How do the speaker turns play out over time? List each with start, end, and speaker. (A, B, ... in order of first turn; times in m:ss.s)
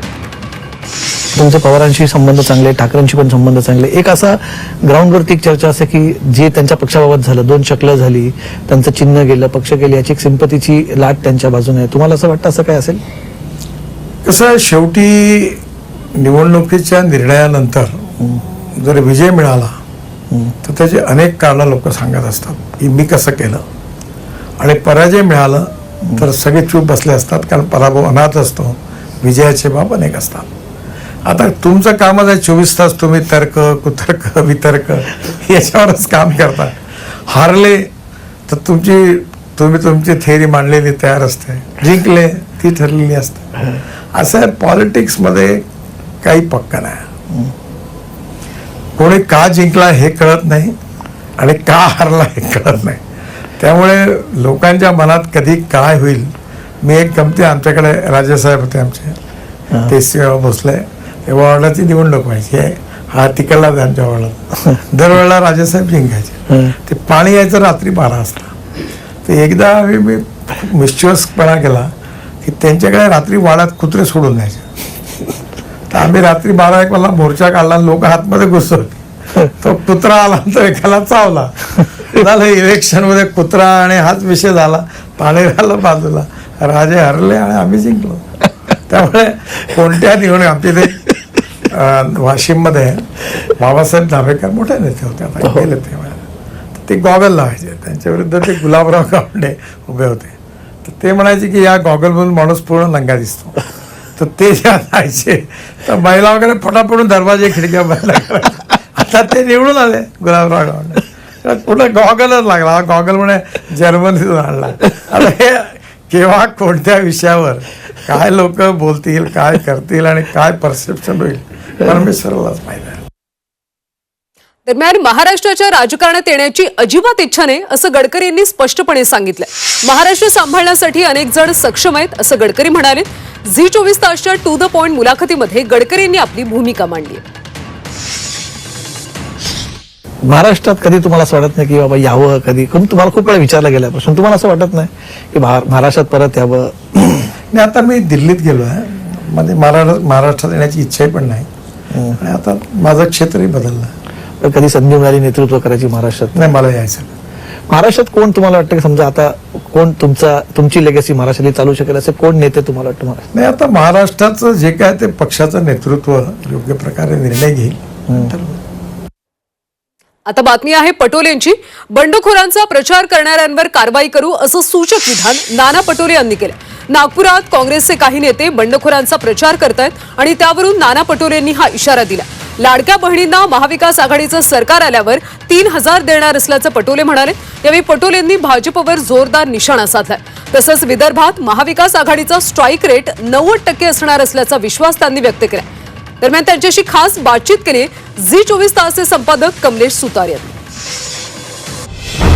0:01.4-0:13.0 A
0:14.2-0:15.6 B
0:16.2-0:19.7 B
0:20.6-0:23.6 B
0:24.6-0:30.5 B
0:31.2-0:37.9 B
0:38.5-0:45.6 B
0:46.2-0:47.1 B
0:49.0-0:50.7 B
0:51.4-0:53.0 B
0:53.6-0:56.3 B
0:56.8-0:59.2 B
0:59.8-1:08.5 B
1:09.2-1:11.9 B
1:12.4-1:14.6 B
1:15.9-1:31.1 B
1:31.7-1:36.2 B
1:36.8-1:40.3 B
1:40.8-1:43.6 B
1:44.2-2:03.0 B
2:04.6-2:17.2 C
2:20.2-2:27.3 A
2:27.5-2:31.5 B
2:31.9-2:32.2 A
2:32.1-2:33.9 B
2:34.4-2:36.5 A
2:36.4-2:37.1 B
2:37.7-2:43.3 A
2:43.3-2:48.6 B
2:50.3-3:15.7 C
3:16.2-3:20.5 C